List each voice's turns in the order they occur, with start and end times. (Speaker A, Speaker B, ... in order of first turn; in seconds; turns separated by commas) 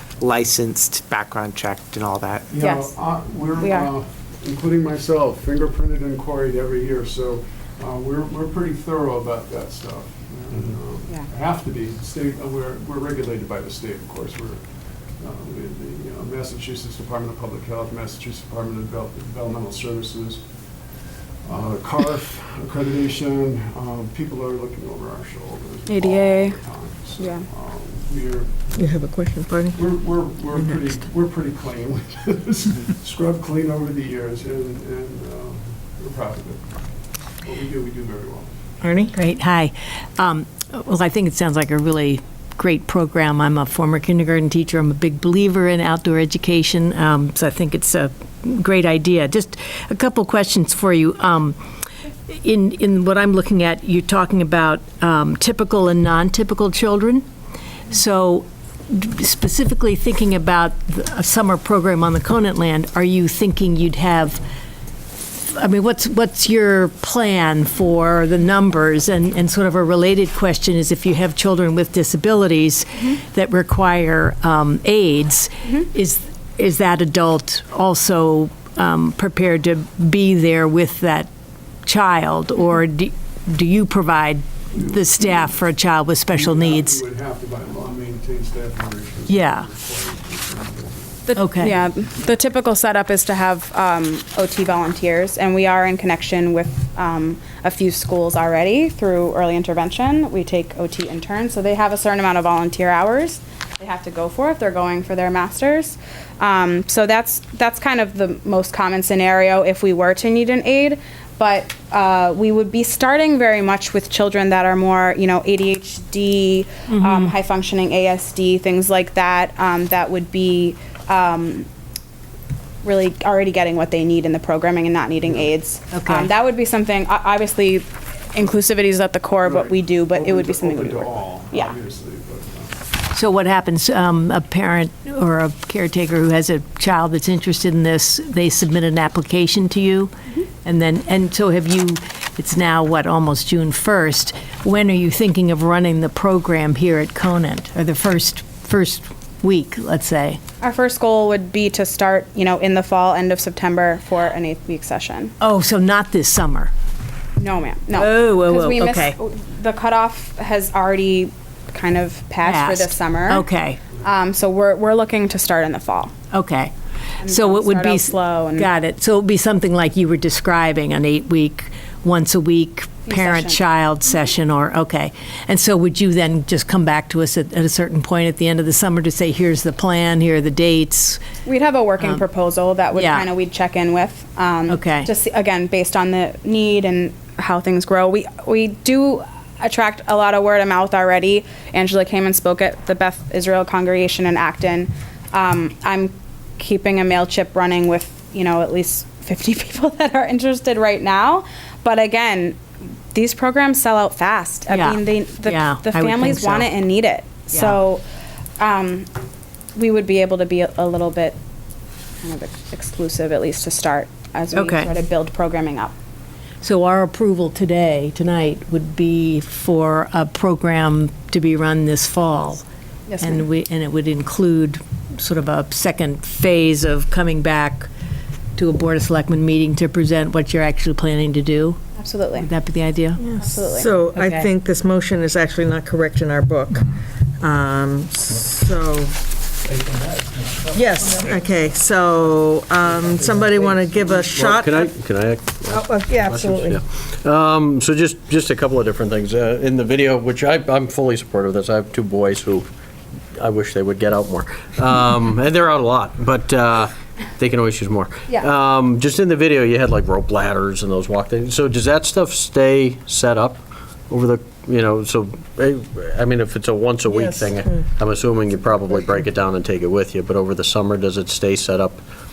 Speaker A: 0.2-2.5, Speaker B: 2.5-14.6, Speaker C: 2.6-2.9, Speaker C: 3.6-3.9, Speaker B: 15.2-20.4, Speaker B: 21.4-28.8, Speaker C: 25.9-26.6, Speaker C: 27.2-27.5, Speaker D: 28.7-29.9, Speaker B: 29.7-36.8, Speaker D: 30.5-30.9, Speaker B: 37.4-38.5, Speaker E: 38.8-51.6, Speaker E: 52.3-57.2, Speaker E: 57.9-64.4, Speaker E: 65.3-81.3, Speaker E: 81.8-87.0, Speaker B: 84.8-85.3, Speaker B: 86.3-91.2, Speaker E: 89.3-89.7, Speaker C: 91.3-121.7, Speaker E: 91.4-91.7, Speaker E: 116.9-117.3, Speaker C: 122.8-131.7, Speaker E: 125.9-126.3, Speaker B: 129.4-132.8, Speaker E: 133.1-140.1, Speaker E: 140.6-150.4, Speaker C: 150.6-155.3, Speaker E: 155.4-156.7, Speaker C: 157.4-163.4, Speaker E: 157.9-159.2, Speaker E: 162.4-163.8, Speaker C: 163.9-166.1, Speaker E: 166.3-166.7, Speaker C: 167.2-168.7, Speaker E: 167.2-181.2, Speaker C: 173.1-173.6, Speaker C: 181.4-202.6, Speaker E: 182.9-183.3, Speaker E: 184.7-185.1, Speaker C: 203.1-208.0, Speaker E: 204.7-206.8, Speaker E: 207.5-207.8, Speaker C: 208.6-209.1, Speaker C: 209.8-211.4, Speaker C: 212.2-215.9, Speaker E: 214.5-214.9, Speaker E: 216.6-222.6, Speaker C: 223.1-223.4, Speaker E: 223.2-227.9, Speaker E: 228.6-231.8, Speaker C: 232.0-232.5, Speaker E: 232.3-233.2, Speaker D: 233.2-239.2, Speaker C: 233.3-233.9, Speaker E: 234.1-234.4, Speaker D: 240.7-244.9, Speaker F: 244.2-252.7, Speaker D: 245.7-246.8, Speaker F: 253.3-272.0, Speaker D: 267.1-267.8